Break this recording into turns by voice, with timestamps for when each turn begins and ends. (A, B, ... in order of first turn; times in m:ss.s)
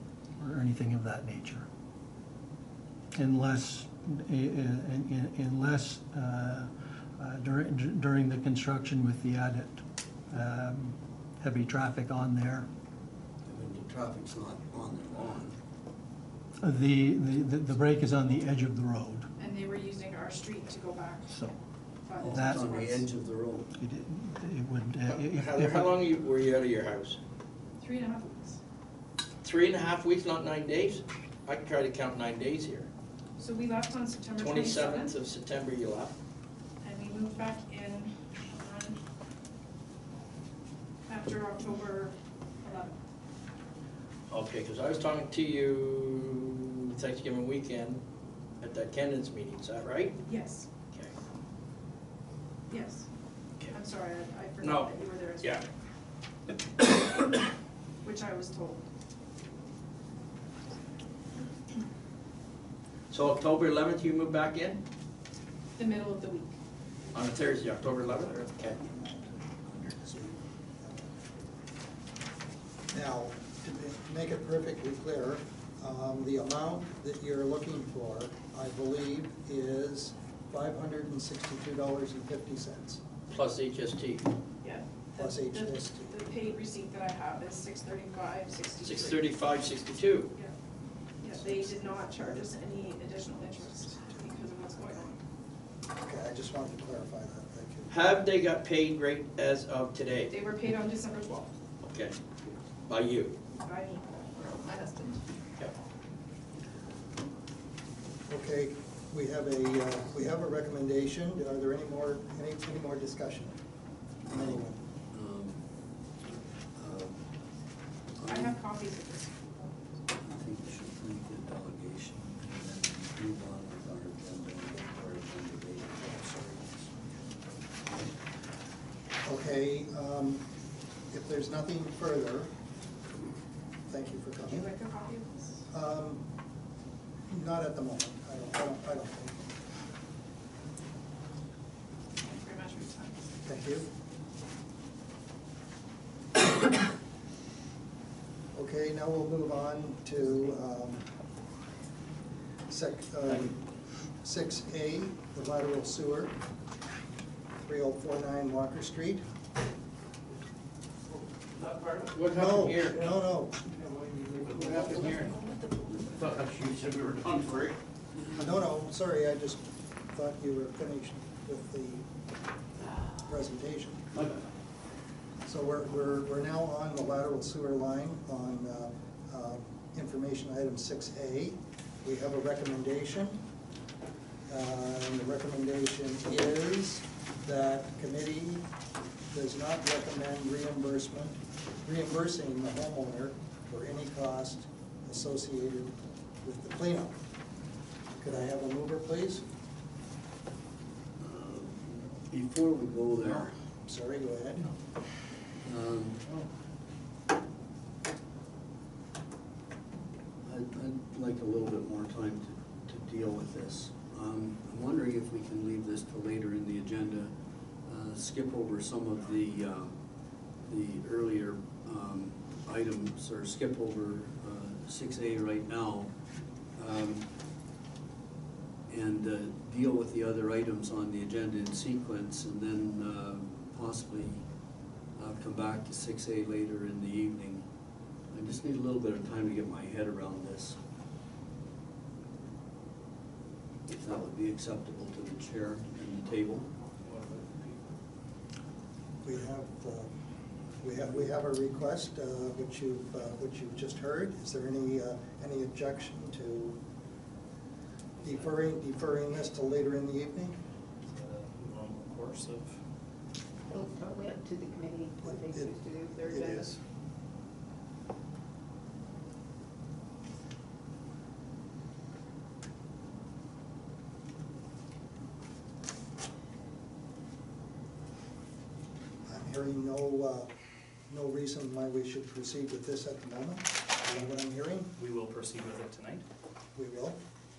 0:00.4-0:01.6 A
0:03.2-0:12.7 A
0:13.4-0:15.6 B
0:16.6-0:19.3 A
0:19.4-0:21.3 C
0:21.3-0:21.6 A
0:22.0-0:23.1 C
0:22.2-0:23.7 B
0:22.2-0:22.6 A
0:23.7-0:26.0 A
0:25.0-0:27.2 D
0:27.8-0:28.6 C
0:29.4-0:32.9 D
0:33.4-0:35.1 C
0:34.4-0:36.1 D
0:36.8-0:39.0 C
0:41.1-0:42.9 C
0:44.3-0:48.0 D
0:48.6-0:50.2 D
0:50.2-0:50.7 C
0:52.7-0:53.1 C
0:53.7-0:55.7 C
0:54.6-0:55.6 D
0:58.0-0:58.8 C
1:03.1-1:04.8 D
1:05.8-1:06.5 C
1:07.1-1:08.8 D
1:09.6-1:10.3 B
1:12.9-1:23.0 E
1:23.3-1:24.3 D
1:24.6-1:29.3 C
1:25.1-1:26.2 E
1:28.8-1:30.3 D
1:31.2-1:35.2 C
1:31.3-1:35.1 E
1:36.0-1:37.9 E
1:37.9-1:40.3 D
1:40.3-1:41.5 C
1:41.8-1:42.2 D
1:42.8-1:43.4 D
1:43.5-1:44.1 C
1:44.7-1:45.0 C
1:48.3-1:53.6 E
1:54.3-1:54.8 E
1:54.3-1:55.6 B
1:56.2-1:57.2 B
1:58.2-1:58.6 B
1:58.3-1:59.9 C
2:00.2-2:06.1 B
2:06.0-2:06.8 E
2:09.2-2:10.4 E
2:11.1-2:12.5 E
2:13.9-2:14.7 E
2:14.4-2:15.6 C
2:15.7-2:16.2 E
2:17.3-2:19.4 E
2:22.2-2:23.2 C
2:23.4-2:23.9 E
2:28.5-2:31.0 E
2:32.7-2:33.6 E
2:34.2-2:36.4 E
2:37.6-2:39.2 E
2:41.6-2:42.0 F
2:41.9-2:43.1 D
2:42.3-2:43.6 E
2:43.8-2:45.3 F
2:44.5-2:45.3 D
2:46.2-2:47.7 D
2:48.4-2:52.0 E
2:53.2-2:54.0 E
2:55.4-3:03.4 E
3:04.5-3:08.6 E
3:09.3-3:17.2 E
3:18.1-3:19.4 E
3:21.2-3:23.5 B
3:23.8-3:24.7 E
3:25.6-3:26.2 B
3:30.4-3:39.9 B
3:40.6-3:46.1 B
3:46.8-3:47.3 B
3:48.9-3:54.4 B
3:55.2-3:57.6 B
3:58.3-4:00.8 B
4:03.9-4:06.7 B
4:07.1-4:07.6 D
4:09.2-4:10.1 E
4:10.8-4:16.8 E
4:18.2-4:20.6 E
4:18.2-4:18.5 F
4:21.0-4:22.8 F
4:23.7-4:26.7 G
4:25.2-4:26.8 E
4:39.3-4:40.5 E
4:41.1-4:44.9 E
4:45.0-4:46.2 F
4:46.7-4:47.2 E